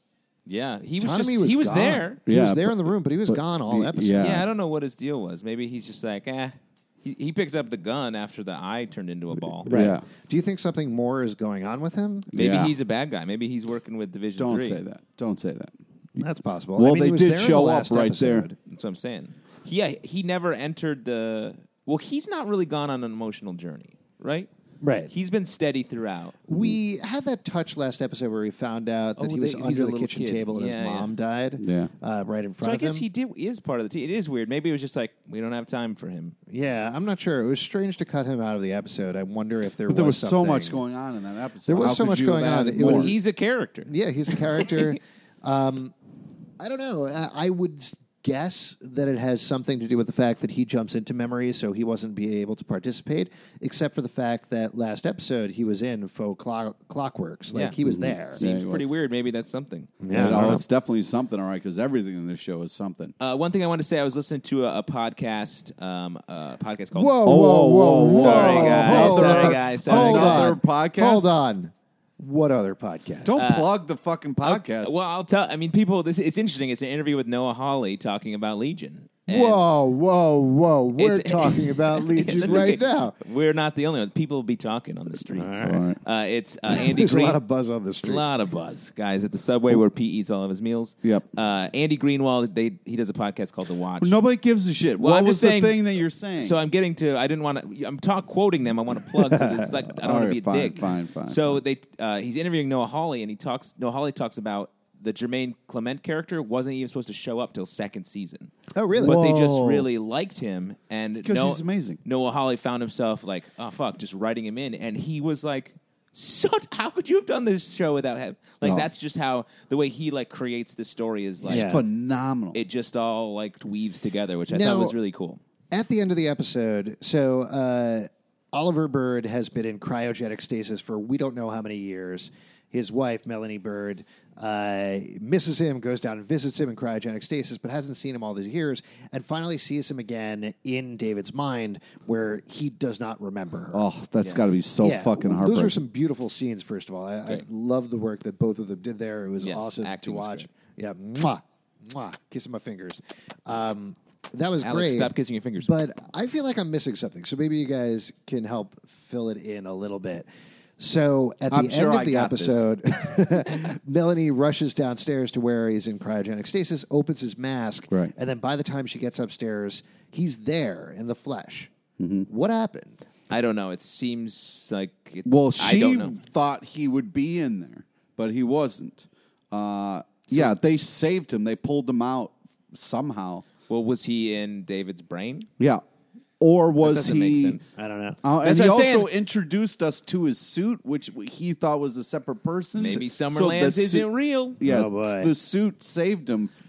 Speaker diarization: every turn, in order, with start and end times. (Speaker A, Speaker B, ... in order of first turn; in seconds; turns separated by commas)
Speaker A: 0.5-2.2, Speaker B: 1.0-4.4, Speaker C: 2.3-4.5, Speaker A: 4.2-9.7, Speaker C: 9.7-10.0, Speaker B: 9.7-12.3, Speaker A: 12.3-14.8, Speaker C: 12.3-12.7, Speaker C: 14.4-15.7, Speaker B: 16.2-18.6, Speaker C: 16.8-18.5, Speaker A: 18.7-24.5, Speaker B: 24.8-25.1, Speaker A: 25.1-26.4, Speaker B: 26.5-33.0, Speaker A: 29.2-31.1, Speaker C: 31.6-31.9, Speaker A: 32.6-36.3, Speaker B: 36.5-40.8, Speaker C: 39.9-43.1, Speaker B: 41.7-43.1, Speaker A: 42.8-44.9, Speaker B: 43.9-45.9, Speaker B: 46.6-58.4, Speaker A: 57.5-57.8, Speaker C: 57.8-58.9, Speaker A: 58.3-60.6, Speaker B: 60.0-60.6, Speaker C: 60.1-63.1, Speaker A: 63.2-67.2, Speaker B: 66.9-73.3, Speaker C: 67.2-71.3, Speaker A: 68.1-70.5, Speaker C: 73.2-75.0, Speaker A: 73.4-73.7, Speaker A: 74.4-79.6, Speaker B: 79.3-83.2, Speaker A: 81.0-87.4, Speaker B: 85.3-85.8, Speaker C: 85.6-86.0, Speaker B: 86.7-88.3, Speaker A: 88.0-94.2, Speaker C: 94.0-96.5, Speaker A: 95.0-95.8, Speaker A: 96.4-121.8, Speaker B: 99.1-99.7, Speaker C: 100.0-101.6, Speaker B: 108.7-109.2, Speaker C: 109.0-109.9, Speaker C: 111.2-112.0, Speaker C: 121.4-122.6, Speaker B: 121.5-121.8, Speaker A: 122.5-125.4, Speaker B: 124.5-124.9, Speaker B: 125.7-143.8, Speaker C: 143.7-145.7, Speaker B: 144.8-160.3, Speaker A: 149.4-150.5, Speaker A: 154.6-155.7, Speaker B: 160.8-171.7, Speaker C: 161.5-162.6, Speaker C: 172.0-172.3, Speaker B: 172.3-173.0, Speaker A: 173.3-176.2, Speaker C: 175.2-183.4, Speaker A: 183.7-185.5, Speaker C: 186.4-187.6, Speaker A: 186.8-187.7, Speaker B: 187.7-188.2, Speaker C: 188.2-194.1, Speaker A: 188.4-189.1, Speaker A: 192.8-194.6, Speaker C: 194.6-196.5, Speaker B: 194.6-195.3